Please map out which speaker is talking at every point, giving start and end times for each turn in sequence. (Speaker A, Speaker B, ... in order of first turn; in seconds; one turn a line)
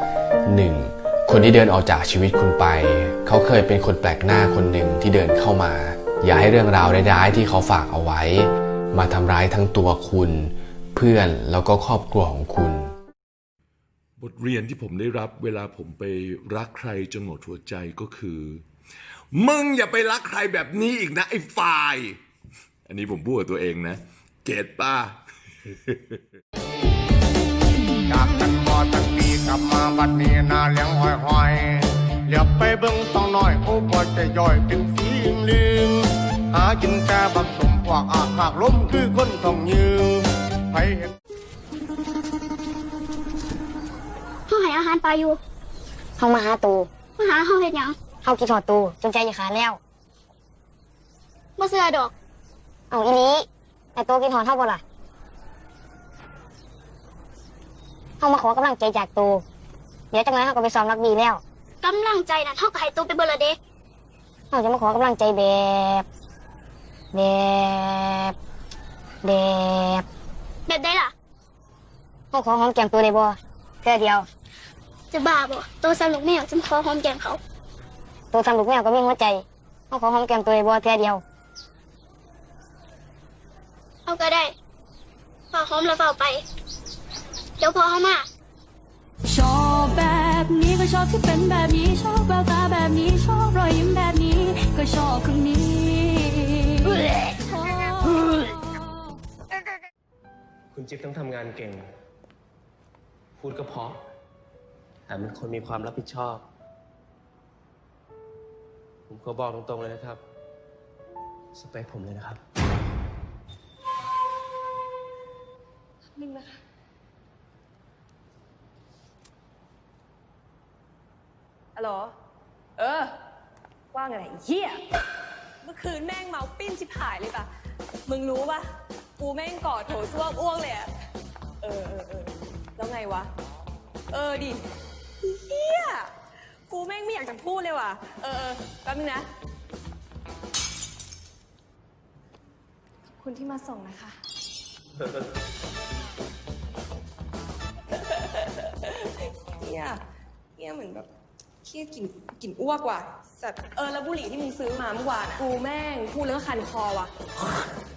Speaker A: 0.5-12.9
Speaker B: 14.2-18.6
Speaker B: 19.3-22.2
Speaker B: 22.9-25.2
Speaker B: 25.7-26.2
Speaker C: 28.1-41.1
Speaker D: 44.5-45.4
Speaker E: 46.2-46.9
Speaker D: 47.2-48.0
Speaker E: 48.2-49.8
Speaker D: 51.6-52.1
Speaker E: 52.9-54.8
Speaker E: 58.2-59.4
Speaker E: 60.1-61.4
Speaker D: 61.8-63.6
Speaker E: 64.5-66.1
Speaker E: 67.1-68.3
Speaker E: 69.2-70.1
Speaker D: 70.7-71.1
Speaker E: 72.3-74.3
Speaker D: 75.1-77.4
Speaker E: 78.3-81.2
Speaker D: 84.1-84.5
Speaker D: 85.5-86.4
Speaker D: 87.6-88.3
Speaker F: 89.3-98.8
Speaker G: 100.7-101.9
Speaker G: 103.4-104.0
Speaker G: 105.1-106.4
Speaker G: 109.1-110.2
Speaker G: 111.5-112.4
Speaker H: 116.1-116.5
Speaker H: 121.8-122.2
Speaker H: 122.8-123.2
Speaker H: 123.9-124.9
Speaker H: 125.6-127.5
Speaker H: 128.1-130.9
Speaker H: 131.6-133.3
Speaker H: 134.1-134.7
Speaker H: 135.2-136.1
Speaker H: 136.7-139.3
Speaker H: 143.2-144.2
Speaker H: 148.0-150.0
Speaker H: 150.6-151.1
Speaker H: 151.6-157.1